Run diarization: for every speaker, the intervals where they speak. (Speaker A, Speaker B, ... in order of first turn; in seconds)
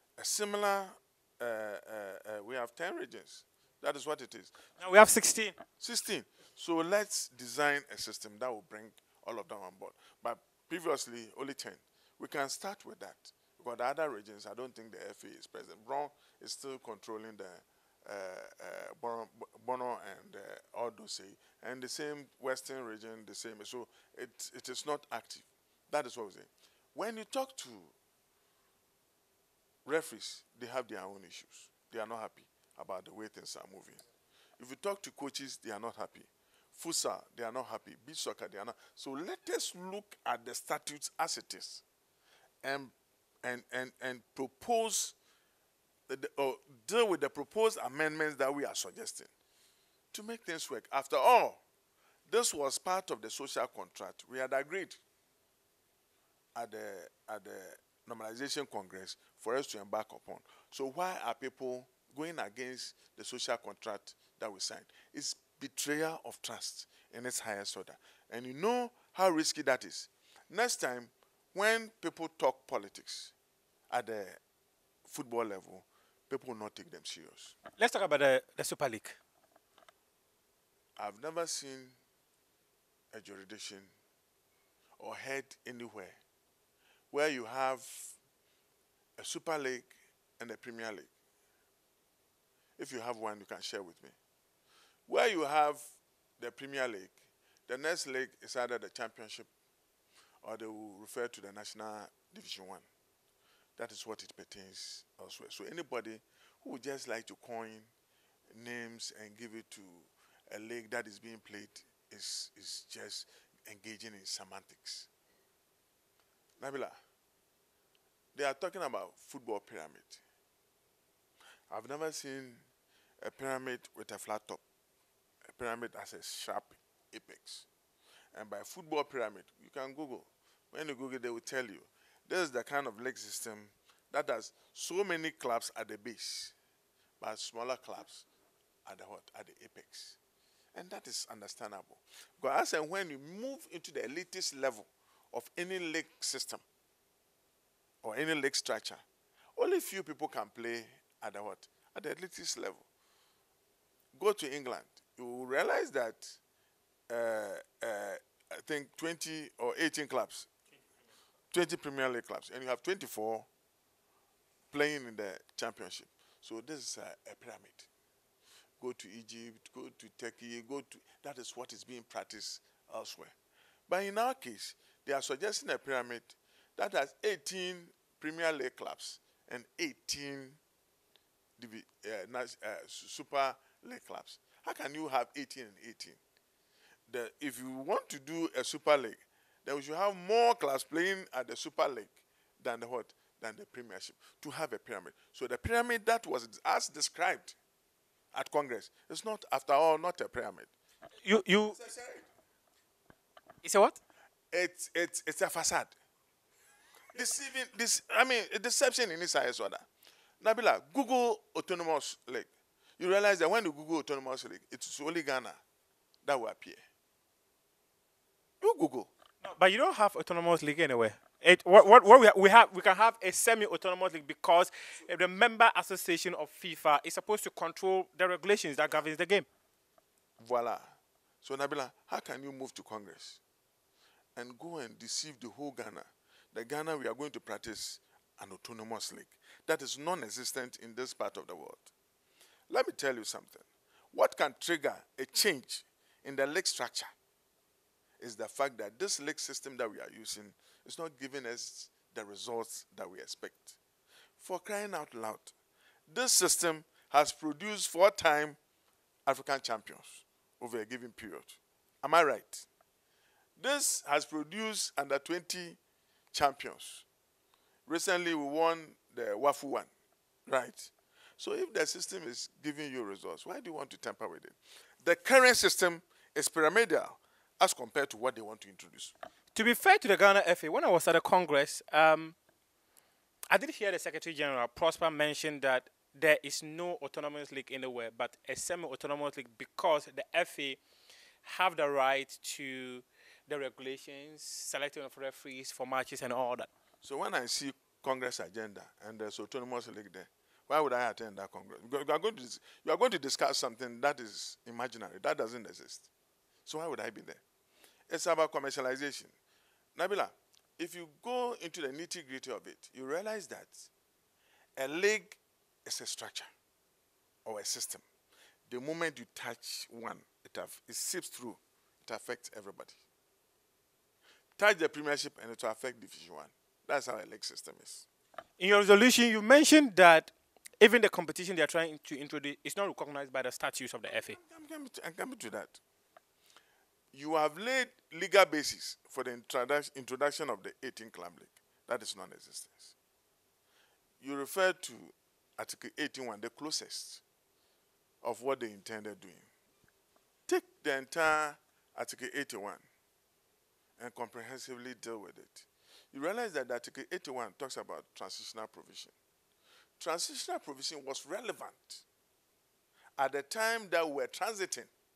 Speaker A: 0.2-4.5, 5.8-27.9, 29.9-34.0, 34.6-41.8, 42.6-45.1, 46.1-49.3, 50.1-51.6, 52.3-55.0, 56.5-73.3, 73.9-74.4, 75.1-77.6, 81.0-82.0, 83.1-83.9, 85.0-86.2, 87.1-88.2, 89.2-91.1, 92.8-94.2, 95.1-95.8, 96.4-99.5, 100.4-102.9, 103.8-107.9, 108.5-115.1, 116.6-117.0, 118.3-120.2, 121.7-122.7, 123.2-124.6, 125.5-127.7, 128.3-136.5, 137.2-138.3, 138.9-140.2, 140.8-146.7, 148.0-149.0, 149.6-152.9, 154.2-156.4, 157.1-160.5, 161.5-163.5, 164.7-167.9, 168.8-173.3, 173.9-180.6, 181.6-186.2, 187.1-197.6, 198.3-200.7, 201.7-202.3, 204.5-205.9, 207.1-209.9, 210.4-215.6, 216.2-216.8, 218.6-219.1, 230.4-233.4, 234.4-241.9, 242.7-247.1, 248.2-253.8, 254.4-255.5, 256.1-258.6, 259.3-262.7, 263.6-265.8, 266.3-267.1, 267.9-269.9, 270.5-279.1, 297.0-306.1, 306.6-307.4, 308.1-309.4, 309.9-313.9, 314.8-316.5, 317.4-318.0, 318.7-323.0, 324.6-328.1, 334.2-335.8, 337.1-342.9, 344.2-347.2, 348.2-349.5, 350.5-352.9, 354.0-359.1, 360.0-362.0, 363.2-364.9
Speaker B: 4.8-5.6, 77.8-79.2, 201.2-201.8, 203.6-204.0, 219.4-229.5, 279.5-282.4, 283.5-290.8, 291.4-296.7, 328.6-334.4